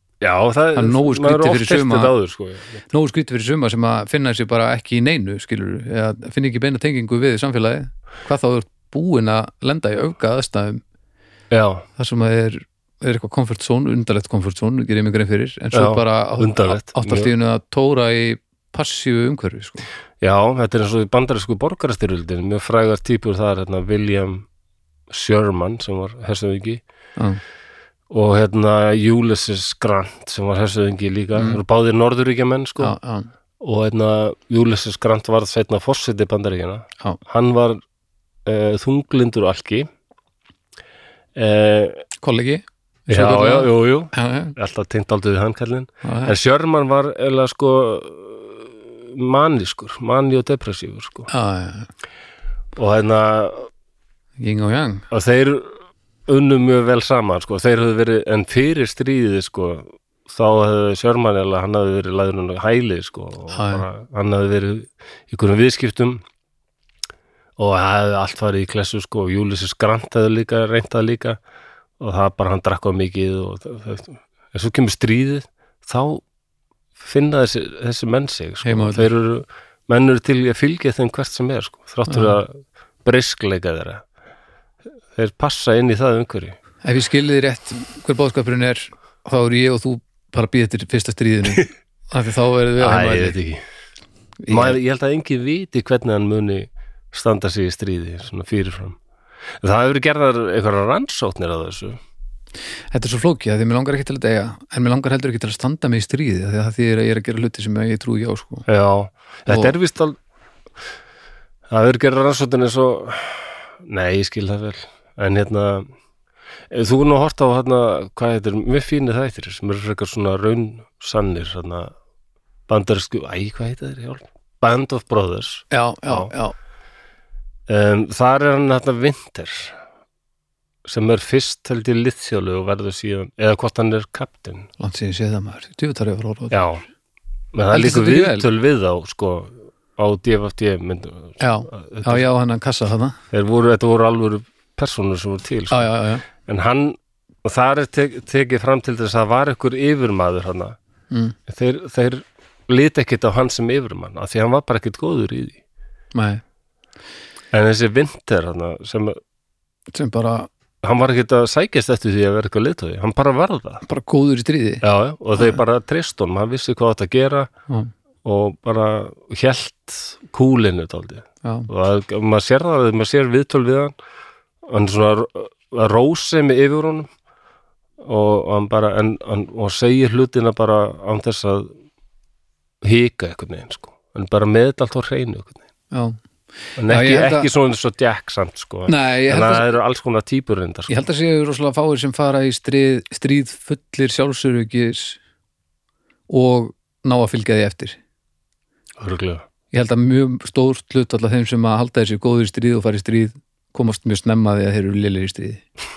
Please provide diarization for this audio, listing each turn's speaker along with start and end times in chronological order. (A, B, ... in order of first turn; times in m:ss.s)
0:00.2-0:02.8 A
0:00.7-0:02.1 B
0:02.9-0:10.8 B
0:11.5-0:11.8 A
0:12.0-0:19.9 B
0:15.7-0:17.3 A
0:20.2-0:24.5 A
0:25.1-0:26.8 A
0:28.1-0:33.0 A
0:31.4-0:31.6 B
0:32.8-0:33.3 B
0:33.6-0:37.8 A
0:38.4-0:39.9 A
0:41.3-0:42.0 A
0:42.2-0:44.5 B
0:43.1-0:51.3 A
0:46.0-0:46.3 B
0:51.3-0:51.9 B
0:52.8-0:53.7 A
0:54.4-0:55.0 B
0:55.1-0:55.7 A
0:56.3-1:06.2 A
1:03.5-1:03.8 B
1:07.6-1:11.4 A
1:12.0-1:16.2 A
1:17.0-1:24.0 A
1:18.6-1:19.1 B
1:22.1-1:22.4 B
1:25.1-1:26.6 A
1:26.8-1:33.4 B
1:32.8-1:33.6 A
1:34.4-1:34.8 B
1:34.5-1:39.0 A
1:39.6-1:42.0 A
1:42.9-1:48.6 B
1:48.7-1:50.2 A
1:49.5-1:49.7 B
1:51.7-1:55.9 A
1:56.7-2:01.9 A
2:02.7-2:06.3 A
2:05.7-2:06.5 B
2:07.7-2:09.7 A
2:10.8-2:14.7 A
2:14.8-2:16.6 B
2:16.5-2:16.8 A
2:17.5-2:22.2 A
2:17.7-2:18.5 B
2:21.4-2:23.2 B
2:23.3-2:30.8 A
2:25.7-2:26.3 B
2:31.1-2:31.4 B
2:31.5-2:35.6 A
2:36.1-2:36.4 B
2:37.5-2:39.2 A
2:39.9-2:40.5 B
2:40.8-2:43.8 A
2:43.8-2:44.8 B
2:44.8-2:47.5 A
2:48.2-2:53.9 A
2:51.4-2:51.7 B
2:54.6-2:57.1 A
2:58.0-3:01.7 A
3:02.8-3:05.6 A
3:05.9-3:06.2 B
3:06.8-3:10.9 A
3:06.8-3:07.5 B
3:08.9-3:09.7 B
3:10.9-3:15.2 B
3:16.3-3:18.0 B
3:19.0-3:19.4 A
3:19.7-3:25.6 B